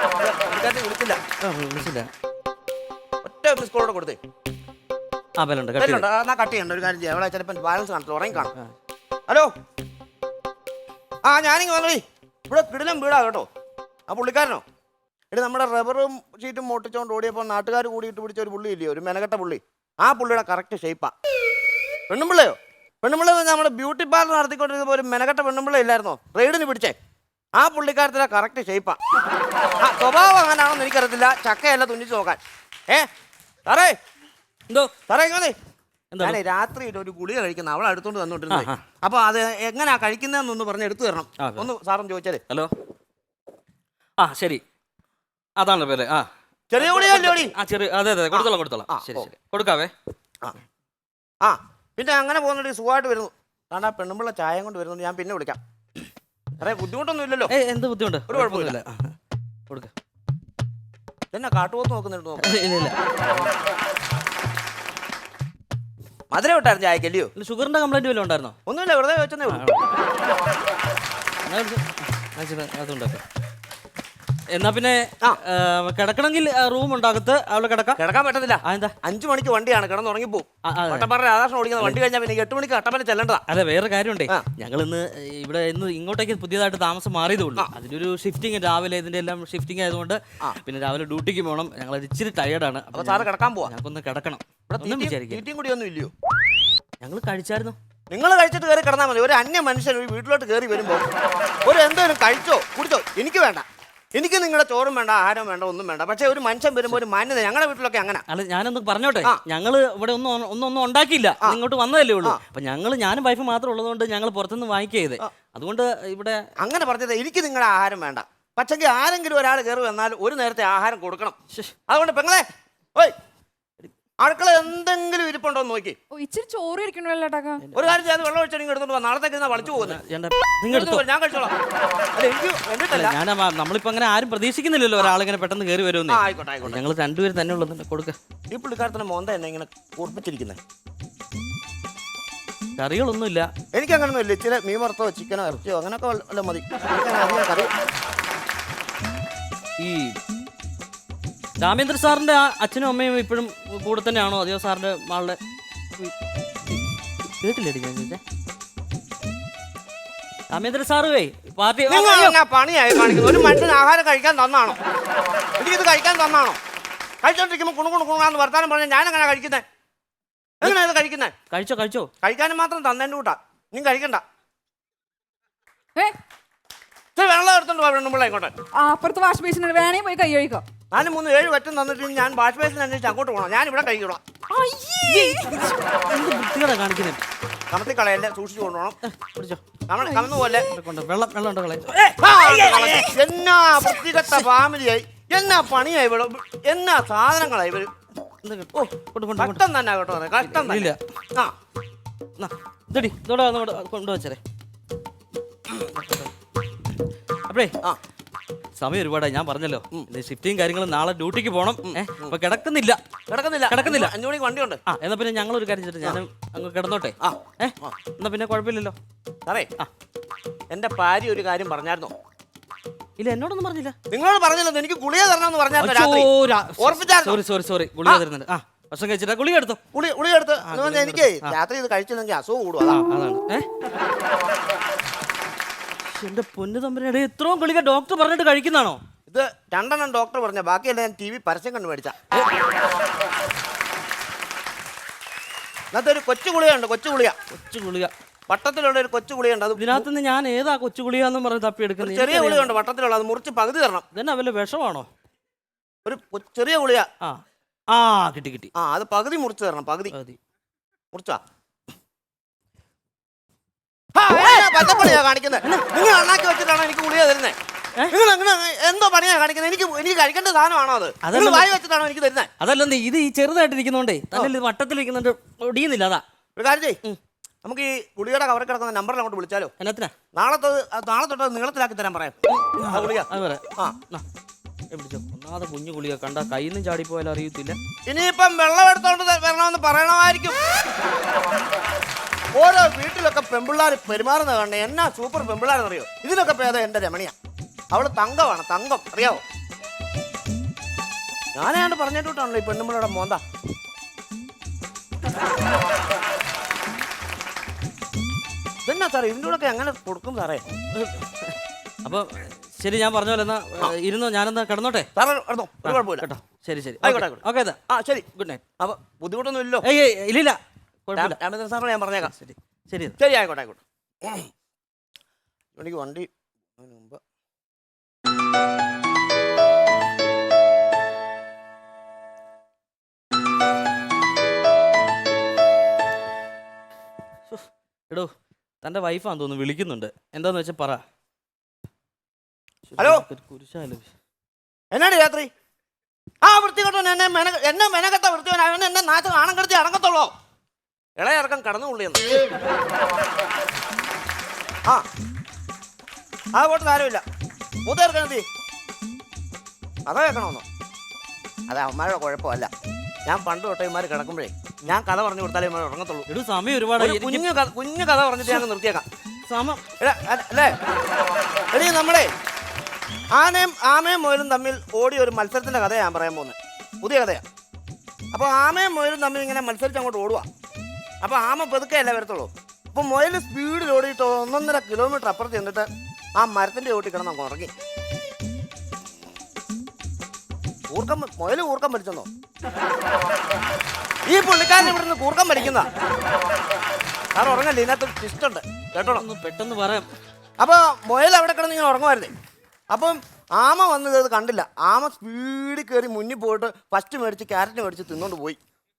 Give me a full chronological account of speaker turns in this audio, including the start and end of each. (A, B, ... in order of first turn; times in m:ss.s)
0:00.2-0:01.2 A
0:01.4-0:02.1 B
0:03.2-0:04.2 A
0:05.4-0:06.0 B
0:05.8-0:08.5 A
0:11.2-0:13.5 A
0:14.1-0:14.6 A
0:15.3-0:21.1 A
0:22.1-0:26.9 A
0:27.6-0:29.0 A
0:29.8-0:33.1 A
0:33.6-0:34.0 A
0:35.1-0:35.6 A
0:36.1-0:36.4 B
0:36.2-0:42.4 A
0:38.5-0:38.8 B
0:41.4-0:41.7 B
0:44.2-0:44.6 B
0:45.6-0:46.3 B
0:46.7-0:47.5 A
0:46.8-0:49.9 B
0:48.3-0:49.3 A
0:51.4-0:55.6 A
0:56.6-0:57.5 A
0:57.5-0:59.1 B
0:58.3-0:58.8 A
1:01.3-1:02.5 A
1:02.4-1:03.5 B
1:06.3-1:07.3 A
1:07.4-1:08.6 B
1:08.7-1:09.6 A
1:09.5-1:09.9 B
1:11.4-1:13.2 B
1:14.5-1:18.0 B
1:18.0-1:23.4 A
1:18.6-1:19.0 B
1:20.6-1:21.1 B
1:23.5-1:35.4 B
1:32.9-1:33.7 A
1:34.7-1:36.1 A
1:37.0-1:37.8 B
1:38.1-1:41.1 A
1:41.6-1:48.2 A
1:48.3-1:56.4 B
1:56.6-2:01.4 A
2:01.9-2:03.2 A
2:04.2-2:06.0 A
2:06.1-2:07.6 C
2:07.6-2:08.0 B
2:07.7-2:10.0 A
2:09.7-2:11.0 B
2:10.7-2:11.5 A
2:12.1-2:13.2 A
2:12.9-2:18.2 B
2:16.1-2:16.8 A
2:18.5-2:20.6 A
2:22.8-2:23.5 B
2:23.7-2:27.7 A
2:29.8-2:30.2 B
2:31.6-2:35.4 B
2:37.4-2:38.2 B
2:40.5-2:42.4 B
2:41.9-2:44.8 A
2:45.6-2:46.6 A
2:47.2-2:49.6 A
2:50.6-2:51.3 A
2:51.5-2:52.1 B
2:52.2-2:54.2 A
2:57.2-2:58.5 A
2:58.8-3:00.6 C
3:00.9-3:04.2 A
3:04.5-3:05.8 C
3:05.1-3:07.2 B
3:07.7-3:09.0 A
3:09.0-3:09.6 B
3:09.9-3:10.7 A
3:10.0-3:10.6 C
3:10.6-3:13.2 B
3:12.2-3:17.9 A
3:18.4-3:19.6 B
3:18.7-3:21.5 A
3:20.4-3:21.0 B
3:22.4-3:24.4 B
3:25.9-3:26.3 B
3:27.5-3:27.7 B
3:28.8-3:33.0 B
3:31.8-3:32.4 A
3:33.3-3:34.8 A
3:33.7-3:34.1 B
3:34.9-3:39.0 B
3:37.2-3:38.0 A
3:40.7-3:42.1 A
3:43.2-3:44.0 B
3:44.1-3:47.4 A
3:45.8-3:49.8 B
3:49.9-3:53.0 A
3:50.6-3:51.6 B
3:52.9-3:53.7 B
3:56.1-3:59.0 B
3:59.3-4:02.2 A
4:05.9-4:07.4 A
4:07.5-4:08.1 B
4:08.5-4:10.0 A
4:09.8-4:12.7 B
4:12.0-4:14.0 A
4:14.1-4:15.1 B
4:16.0-4:17.1 A
4:17.2-4:18.7 B
4:18.7-4:20.1 A
4:20.1-4:20.4 B
4:21.1-4:21.4 A
4:24.1-4:27.6 A
4:24.3-4:25.8 B
4:28.1-4:32.5 A
4:31.2-4:31.7 B
4:32.6-4:36.2 B
4:36.6-4:37.0 A
4:37.6-4:39.7 A
4:39.8-4:40.1 B
4:40.3-4:44.0 A
4:42.5-4:44.2 B
4:44.9-4:47.8 B
4:48.1-4:50.6 A
4:52.5-4:57.3 A
4:57.9-4:59.4 A
5:01.5-5:03.4 A
5:08.8-5:10.6 A
5:10.9-5:11.5 B
5:12.0-5:15.1 B
5:15.2-5:16.2 A
5:15.8-5:17.8 B
5:17.0-5:18.2 A
5:18.3-5:18.6 B
5:18.8-5:19.8 A
5:19.8-5:21.4 B
5:21.2-5:22.3 A
5:22.2-5:23.2 B
5:23.2-5:24.5 A
5:25.8-5:27.2 A
5:37.5-5:41.0 B
5:42.9-5:44.1 B
5:43.0-5:43.2 A
5:44.9-5:45.5 A
5:46.4-5:50.3 A
5:51.2-5:52.2 A
5:56.5-5:57.2 A
5:57.8-5:58.4 A
6:00.1-6:00.6 A
6:01.7-6:02.7 A
6:03.3-6:06.2 A
6:06.3-6:07.5 B
6:07.0-6:09.0 A
6:09.5-6:09.8 B
6:10.0-6:10.8 A
6:11.7-6:12.3 A
6:13.3-6:17.4 A
6:18.3-6:20.5 A
6:21.2-6:27.7 A
6:30.9-6:32.3 A
6:34.3-6:35.9 A
6:37.3-6:39.2 A
6:39.1-6:40.1 B
6:40.6-6:42.3 A
6:42.9-6:48.6 A